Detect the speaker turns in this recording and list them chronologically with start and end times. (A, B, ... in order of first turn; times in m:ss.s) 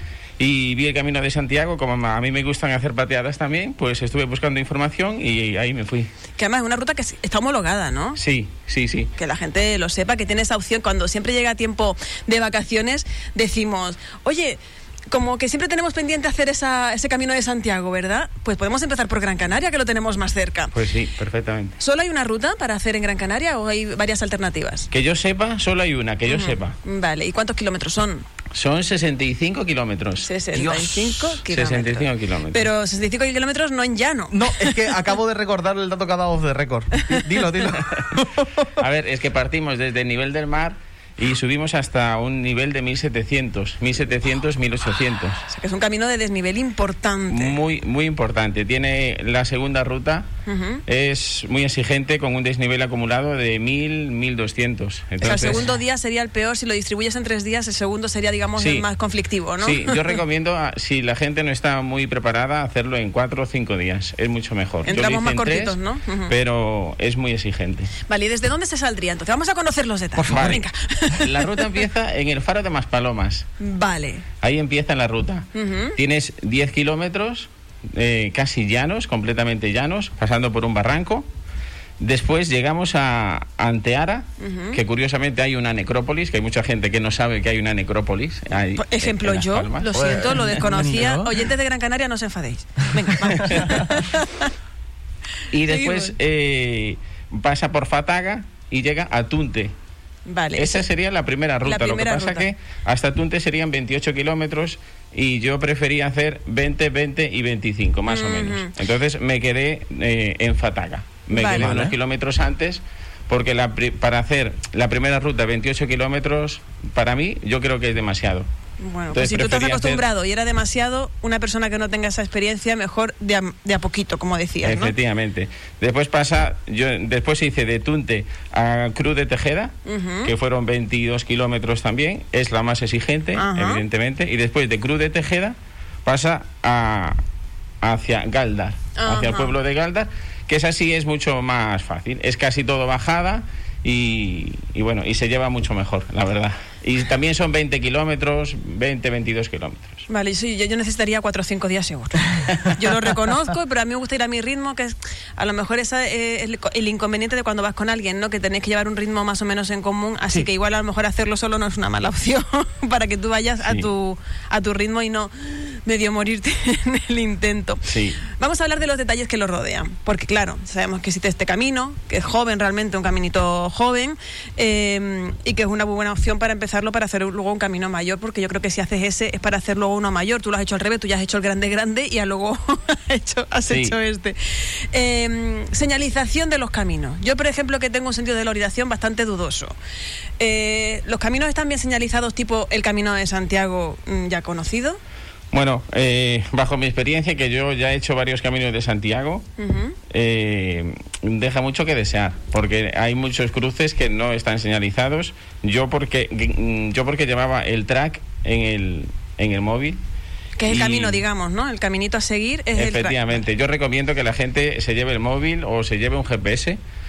0:00.4-0:06.1 A
0:06.4-0:08.2 B
0:08.2-0:09.1 A
0:09.2-0:14.6 B
0:15.1-0:20.8 B
0:20.7-0:21.8 A
0:21.8-0:24.9 B
0:24.9-0:26.8 A
0:26.3-0:28.2 B
0:28.5-0:30.3 A
0:30.2-0:34.9 B
0:30.5-0:31.4 C
0:31.4-0:32.7 A
0:34.3-0:38.7 C
0:37.8-0:38.1 A
0:38.7-0:45.4 A
0:45.5-0:47.6 B
0:47.3-0:50.2 A
0:50.4-0:50.8 B
0:50.9-0:55.7 A
0:55.2-1:00.2 B
0:58.6-0:58.9 A
0:59.6-1:07.9 A
1:04.8-1:06.3 B
1:08.0-1:11.7 B
1:10.2-1:10.6 C
1:10.2-1:13.4 A
1:13.6-1:14.2 B
1:14.4-1:21.3 A
1:15.5-1:16.0 B
1:22.0-1:31.0 A
1:24.4-1:24.8 B
1:28.8-1:34.5 B
1:29.9-1:31.4 C
1:35.5-1:39.7 A
1:35.6-1:36.1 B
1:40.2-1:40.8 B
1:40.6-1:58.4 A
1:41.6-1:42.5 B
1:48.1-1:48.7 B
1:51.3-1:51.9 B
1:58.8-2:04.9 B
1:59.1-2:00.0 A
2:04.6-2:09.7 A
2:09.8-2:10.3 B
2:10.2-2:15.5 A
2:13.3-2:13.8 B
2:16.0-2:17.2 A
2:17.8-2:30.0 A
2:19.0-2:19.5 B
2:30.1-3:09.7 B
2:43.6-2:43.9 A
2:47.8-2:48.2 A
3:03.7-3:04.0 A
3:10.4-3:15.0 B
3:15.5-3:19.4 A
3:19.6-3:20.0 B
3:20.1-3:30.0 A
3:30.6-3:33.4 B
3:30.7-3:31.2 A
3:32.8-3:36.8 A